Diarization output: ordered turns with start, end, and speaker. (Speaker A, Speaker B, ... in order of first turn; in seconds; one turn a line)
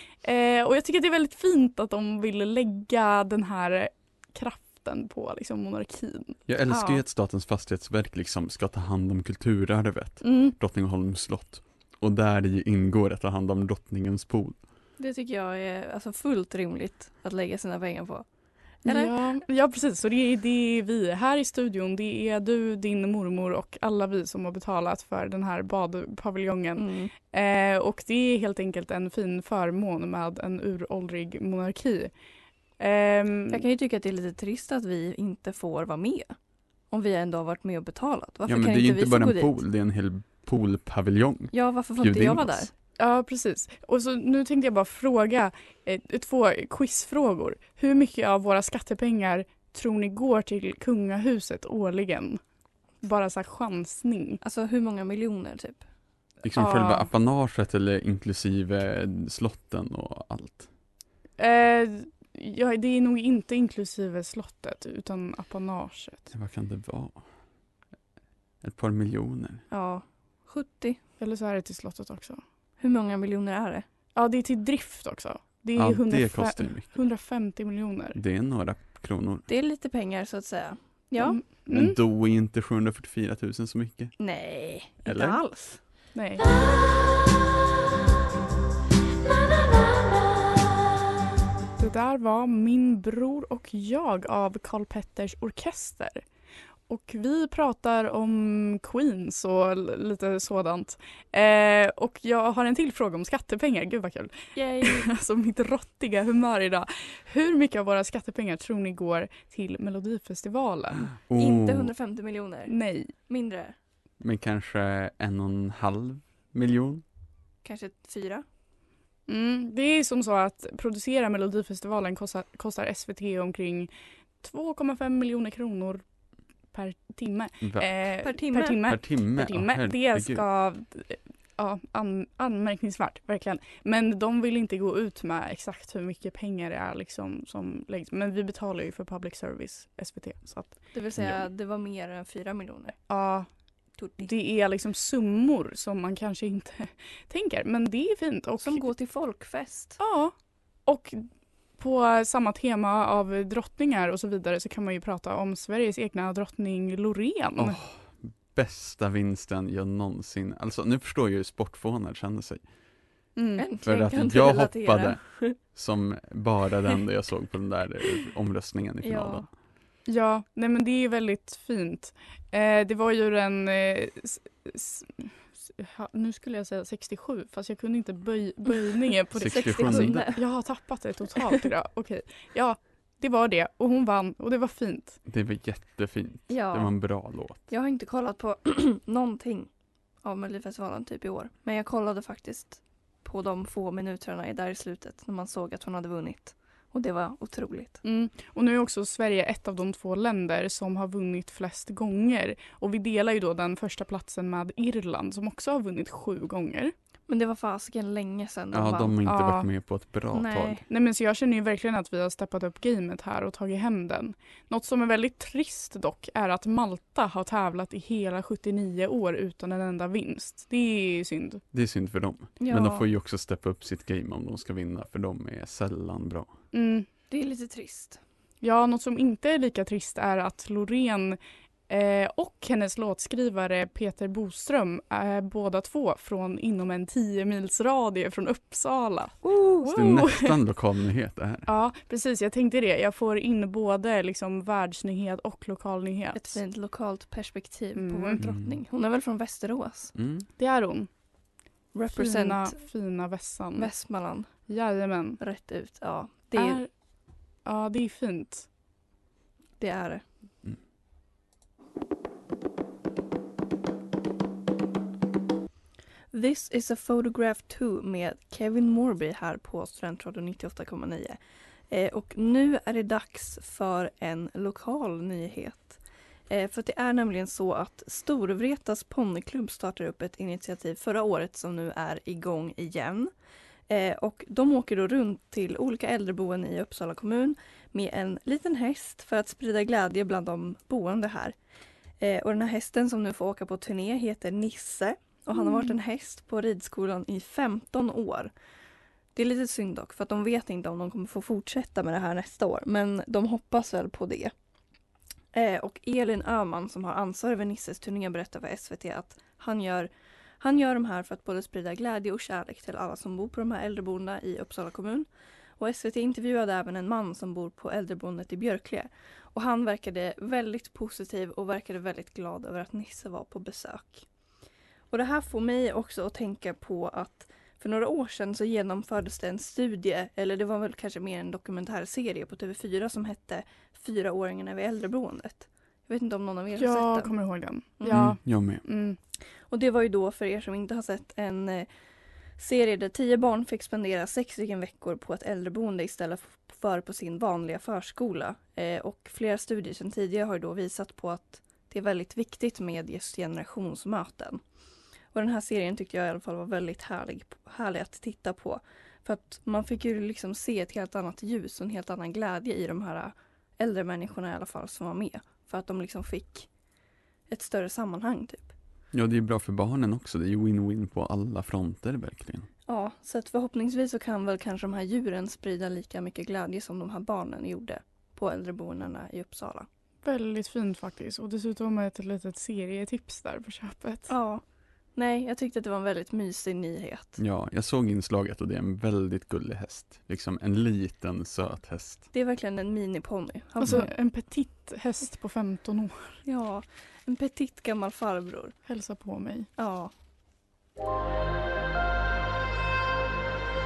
Speaker A: 0.2-6.4
Speaker B: 6.5-14.6
Speaker C: 6.7-7.0
Speaker C: 10.2-10.6
Speaker C: 15.0-18.2
Speaker C: 18.9-19.4
Speaker A: 18.9-32.1
Speaker C: 26.8-27.1
Speaker A: 32.8-33.6
Speaker C: 33.5-36.3
Speaker C: 36.9-39.6
Speaker B: 38.5-42.7
Speaker C: 41.5-42.7
Speaker A: 43.0-52.4
Speaker A: 53.0-54.4
Speaker C: 54.4-55.9
Speaker B: 56.4-60.7
Speaker A: 56.5-57.1
Speaker A: 61.4-66.3
Speaker B: 66.3-67.2
Speaker B: 68.6-69.6
Speaker C: 69.7-71.0
Speaker A: 71.2-72.4
Speaker C: 72.8-73.8
Speaker A: 74.2-78.2
Speaker B: 75.8-77.0
Speaker B: 78.2-79.5
Speaker C: 79.5-81.4
Speaker A: 81.2-82.0
Speaker B: 81.7-84.1
Speaker C: 84.2-85.8
Speaker B: 85.1-85.4
Speaker A: 86.1-86.4
Speaker A: 91.8-96.2
Speaker A: 96.9-111.1
Speaker C: 104.5-105.1
Speaker B: 111.2-111.9
Speaker C: 111.4-112.8
Speaker A: 112.7-113.1
Speaker C: 113.3-113.8
Speaker B: 114.2-117.0
Speaker C: 117.6-118.4
Speaker A: 119.3-126.0
Speaker A: 126.7-140.8
Speaker B: 127.6-128.0
Speaker C: 128.2-128.8
Speaker B: 128.8-130.4
Speaker C: 140.9-143.0
Speaker A: 143.0-143.5
Speaker C: 144.0-144.3
Speaker A: 144.2-148.9
Speaker C: 148.6-150.0
Speaker A: 150.0-150.3
Speaker A: 150.9-151.2
Speaker A: 151.8-157.8
Speaker B: 157.6-162.6
Speaker A: 163.4-163.7
Speaker C: 163.6-165.6
Speaker B: 163.8-169.5
Speaker C: 169.0-169.5
Speaker A: 170.1-185.2
Speaker B: 179.3-180.3
Speaker C: 179.3-180.4
Speaker B: 185.3-187.7
Speaker C: 186.5-186.9
Speaker C: 187.7-189.7
Speaker C: 190.2-198.0
Speaker A: 198.0-206.9
Speaker C: 207.3-209.2
Speaker B: 208.7-210.8
Speaker A: 209.3-209.7
Speaker C: 210.3-210.8
Speaker A: 210.9-221.6
Speaker B: 221.7-226.5
Speaker C: 222.6-223.1
Speaker A: 226.7-227.1
Speaker C: 227.3-228.2
Speaker A: 228.6-240.6
Speaker C: 239.4-240.0
Speaker B: 239.9-241.7
Speaker A: 241.7-246.6
Speaker C: 246.3-250.1
Speaker A: 248.0-248.4
Speaker B: 248.4-248.8
Speaker B: 250.2-250.5
Speaker A: 250.6-251.1
Speaker C: 251.9-252.8
Speaker A: 252.1-253.9
Speaker C: 253.8-254.5
Speaker A: 254.7-255.4
Speaker C: 255.4-256.8
Speaker A: 256.6-256.9
Speaker A: 257.6-258.7
Speaker C: 259.8-260.2
Speaker C: 266.3-271.4
Speaker C: 271.9-276.0
Speaker C: 276.5-283.3
Speaker C: 283.9-291.6
Speaker C: 292.2-298.5
Speaker C: 299.4-304.5
Speaker C: 305.5-310.1
Speaker C: 310.6-315.3
Speaker C: 315.8-324.3
Speaker C: 325.1-337.3
Speaker A: 336.8-339.2
Speaker C: 338.0-338.3
Speaker B: 338.1-338.8
Speaker C: 339.7-341.9
Speaker C: 342.6-354.6
Speaker C: 355.3-366.7
Speaker C: 367.5-368.7
Speaker B: 369.1-372.7
Speaker C: 372.9-379.9
Speaker A: 380.2-384.3
Speaker C: 384.3-384.6
Speaker C: 385.2-387.4
Speaker B: 387.4-392.3
Speaker C: 392.3-394.1
Speaker A: 393.8-396.4
Speaker C: 396.4-398.8
Speaker A: 398.9-399.7
Speaker C: 399.8-400.1